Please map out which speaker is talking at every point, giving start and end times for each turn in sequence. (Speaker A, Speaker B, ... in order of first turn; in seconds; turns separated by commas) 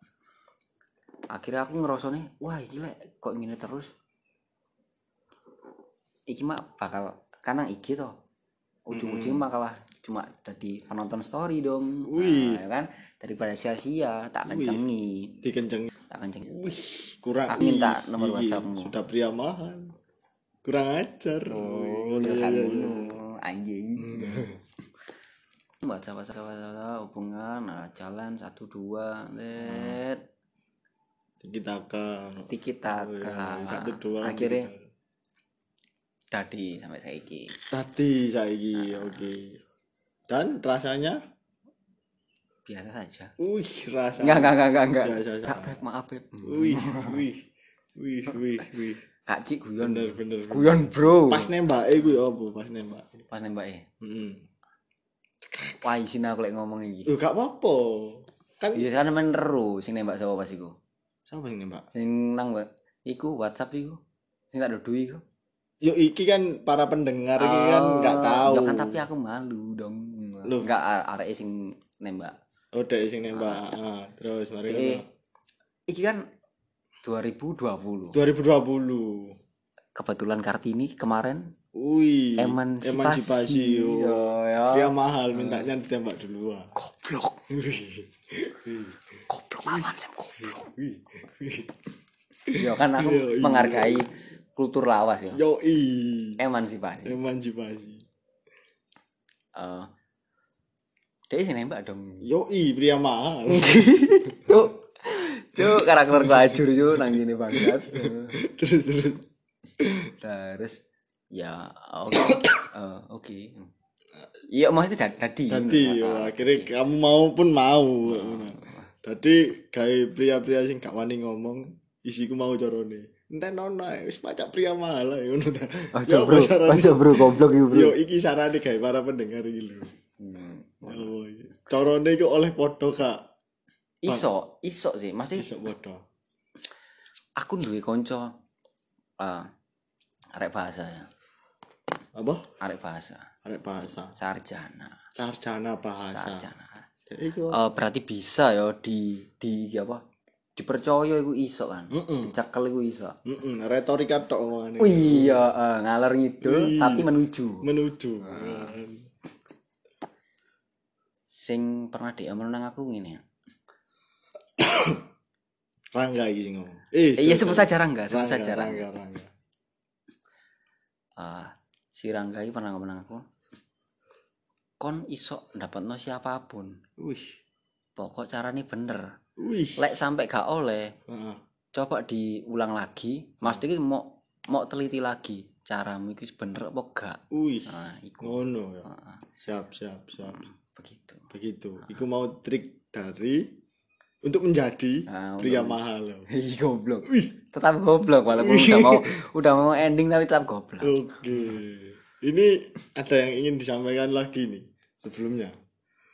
Speaker A: 1.3-3.9, Speaker A: 6.3-8.2, Speaker A: 8.8-15.4, Speaker B: 8.9-9.4, Speaker B: 12.1-12.6, Speaker B: 14.5-14.8, Speaker B: 15.4-15.9, Speaker A: 16.1-16.5, Speaker B: 16.4-19.9, Speaker A: 17.5-18.9, Speaker B: 20.6-23.1, Speaker A: 21.5-24.6, Speaker B: 24.0-24.6, Speaker A: 25.8-30.2, Speaker B: 29.6-30.0, Speaker B: 31.4-34.8, Speaker A: 32.5-34.7, Speaker A: 36.3-37.6, Speaker B: 37.7-39.6, Speaker A: 38.8-39.2, Speaker B: 40.3-41.2, Speaker A: 42.6-43.3, Speaker B: 43.4-45.8, Speaker A: 44.2-47.2, Speaker B: 46.4-47.4, Speaker B: 48.0-49.0, Speaker A: 49.2-51.5, Speaker B: 49.8-53.2, Speaker A: 53.3-53.8, Speaker B: 54.0-54.4, Speaker B: 55.4-55.9, Speaker A: 55.8-57.1, Speaker B: 57.0-58.9, Speaker A: 58.7-60.7, Speaker B: 61.3-61.9, Speaker A: 61.9-64.0, Speaker A: 64.5-65.2, Speaker B: 65.8-69.0, Speaker A: 67.4-72.3, Speaker B: 70.4-70.7, Speaker B: 72.7-75.0, Speaker A: 73.3-73.8, Speaker A: 74.7-75.0, Speaker A: 75.9-76.2, Speaker A: 77.0-78.2, Speaker B: 78.1-79.4, Speaker A: 79.9-81.5, Speaker B: 81.7-86.7, Speaker A: 82.4-85.7, Speaker A: 86.7-87.4, Speaker B: 87.5-89.2, Speaker A: 89.3-90.8, Speaker B: 89.7-91.8, Speaker B: 92.5-94.0, Speaker A: 92.5-95.4, Speaker B: 95.3-96.4, Speaker A: 96.4-97.2, Speaker B: 97.0-98.0, Speaker A: 99.5-99.9, Speaker A: 101.3-102.2, Speaker B: 102.2-103.9, Speaker A: 103.5-108.4, Speaker B: 105.6-109.2, Speaker B: 109.8-110.1, Speaker A: 110.2-110.8, Speaker A: 111.3-113.7, Speaker B: 112.3-112.5, Speaker A: 114.5-116.7, Speaker B: 115.5-129.9, Speaker A: 118.0-118.9, Speaker A: 125.9-127.9, Speaker A: 130.2-131.1, Speaker B: 130.8-133.2, Speaker A: 134.0-135.5, Speaker B: 135.3-136.0, Speaker A: 137.4-138.3, Speaker A: 139.2-139.5, Speaker A: 140.3-141.1, Speaker B: 142.1-142.4, Speaker A: 142.6-143.3, Speaker B: 143.4-144.1, Speaker A: 144.2-145.0, Speaker B: 145.1-146.5, Speaker A: 146.1-146.9, Speaker B: 147.1-147.6, Speaker A: 147.5-150.0, Speaker A: 150.6-153.2, Speaker B: 151.9-152.3, Speaker B: 153.2-155.5, Speaker A: 154.8-158.8, Speaker B: 156.4-159.0, Speaker A: 161.3-163.2, Speaker B: 164.6-165.1, Speaker B: 165.9-169.3, Speaker A: 167.2-168.9, Speaker A: 171.2-173.2, Speaker A: 174.8-176.8, Speaker B: 177.0-177.4, Speaker A: 178.0-179.1, Speaker B: 179.4-179.9, Speaker A: 179.8-180.9, Speaker B: 181.1-181.4, Speaker A: 181.7-189.2, Speaker B: 187.3-190.4, Speaker A: 190.2-191.3, Speaker B: 191.3-193.5, Speaker B: 194.2-196.3, Speaker A: 195.1-201.6, Speaker B: 198.3-199.2, Speaker B: 200.8-205.6